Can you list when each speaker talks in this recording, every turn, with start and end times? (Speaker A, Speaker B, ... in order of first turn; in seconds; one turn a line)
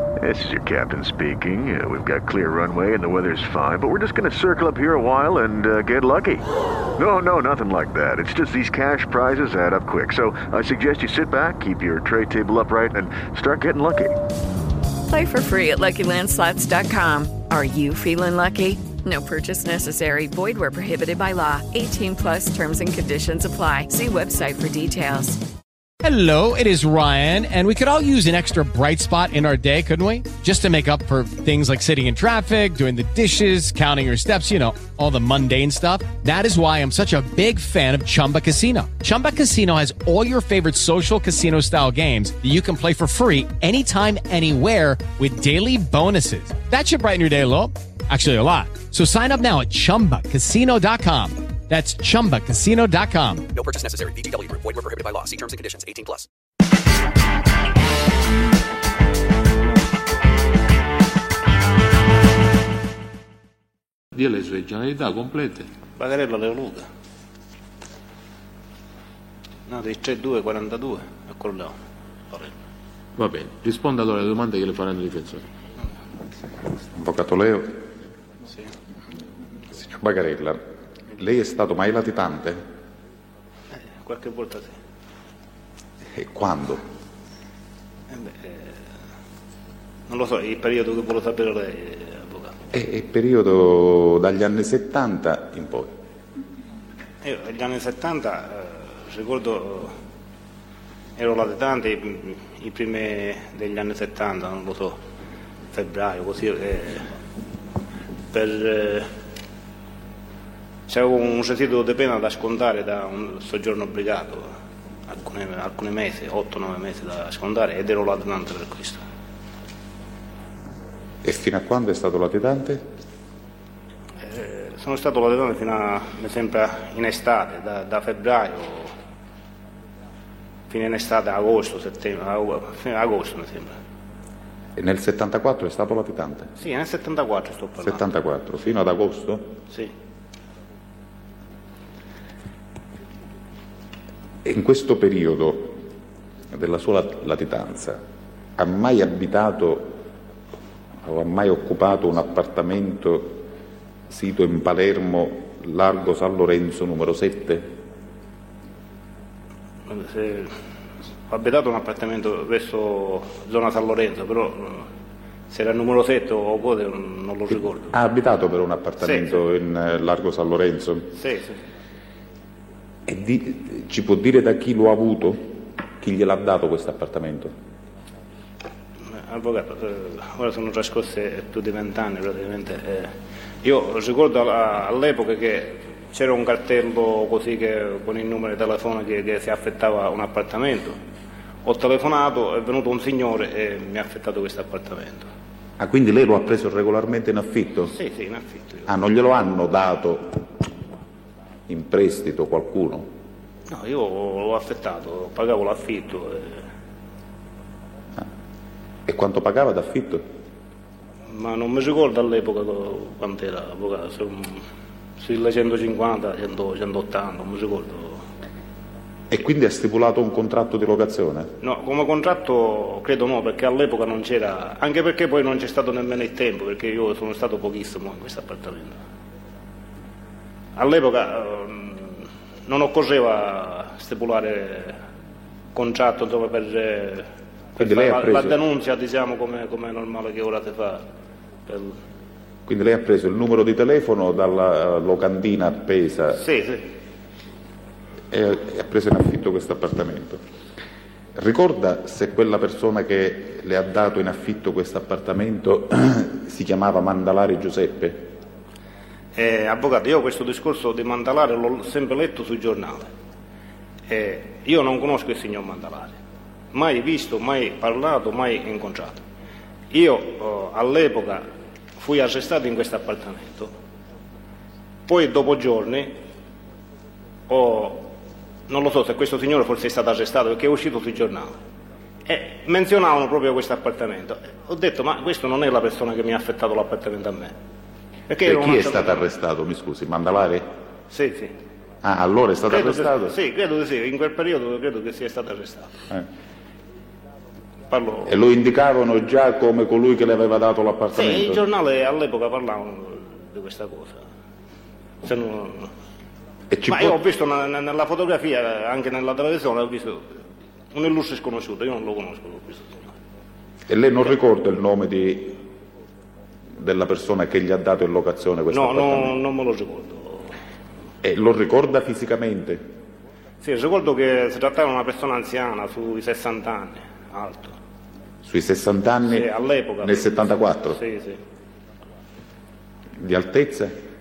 Speaker A: 0.2-14.2
Speaker B: 15.1-25.4
Speaker C: 26.0-53.5
Speaker D: 53.5-56.3
Speaker E: 64.1-65.7
Speaker F: 66.0-66.9
Speaker F: 69.7-71.8
Speaker E: 73.2-75.5
Speaker G: 76.9-77.9
Speaker G: 79.7-80.6
Speaker G: 81.2-82.6
Speaker F: 83.9-84.8
Speaker G: 86.1-86.8
Speaker F: 88.1-88.8
Speaker F: 90.1-92.5
Speaker G: 92.7-96.0
Speaker F: 97.2-99.9
Speaker F: 101.2-105.0
Speaker F: 105.7-107.1
Speaker F: 108.3-109.1
Speaker F: 110.9-114.5
Speaker F: 115.1-119.0
Speaker G: 121.2-122.9
Speaker F: 124.2-128.9
Speaker F: 130.7-133.8
Speaker G: 134.8-136.5
Speaker F: 136.6-138.0
Speaker G: 137.8-139.6
Speaker G: 144.4-145.9
Speaker G: 146.5-148.0
Speaker G: 148.6-150.0
Speaker G: 151.0-153.4
Speaker G: 154.1-157.8
Speaker F: 159.9-160.5
Speaker F: 161.3-164.9
Speaker F: 165.5-167.9
Speaker G: 167.9-171.2
Speaker F: 169.0-169.3
Speaker F: 171.2-171.6
Speaker G: 173.1-177.5
Speaker F: 179.1-183.1
Speaker F: 183.6-191.0
Speaker F: 191.7-195.2
Speaker G: 195.8-197.9
Speaker F: 197.9-198.8
Speaker G: 198.9-200.4
Speaker G: 201.7-203.1
Speaker F: 203.7-206.6
Speaker G: 209.1-210.2
Speaker F: 211.3-214.6
Speaker F: 215.2-218.2
Speaker G: 219.3-221.5
Speaker F: 221.6-229.0
Speaker F: 230.8-235.0
Speaker F: 235.7-241.1
Speaker G: 237.8-238.6
Speaker F: 241.7-242.0
Speaker G: 242.7-246.4
Speaker F: 246.4-246.9
Speaker G: 248.3-250.4
Speaker G: 251.4-258.3
Speaker F: 259.4-263.1
Speaker F: 264.1-266.2
Speaker F: 266.7-269.2
Speaker F: 269.9-271.4
Speaker F: 272.0-273.7
Speaker F: 275.1-276.2
Speaker F: 277.5-278.2
Speaker F: 278.7-281.5
Speaker F: 282.3-287.5
Speaker F: 288.3-289.3
Speaker G: 288.4-290.7
Speaker F: 291.1-291.5
Speaker G: 292.0-293.4
Speaker F: 292.7-295.9
Speaker F: 297.9-298.4
Speaker G: 298.2-301.6
Speaker F: 301.2-304.2
Speaker F: 305.2-305.9
Speaker G: 306.7-307.2
Speaker F: 306.9-310.3
Speaker F: 310.9-313.1
Speaker G: 313.9-315.6
Speaker G: 316.8-319.3
Speaker F: 318.7-320.6
Speaker G: 321.2-322.9
Speaker F: 323.6-327.8
Speaker G: 328.4-329.5
Speaker F: 329.3-330.3
Speaker G: 330.0-331.0
Speaker F: 330.9-331.4
Speaker G: 333.2-334.0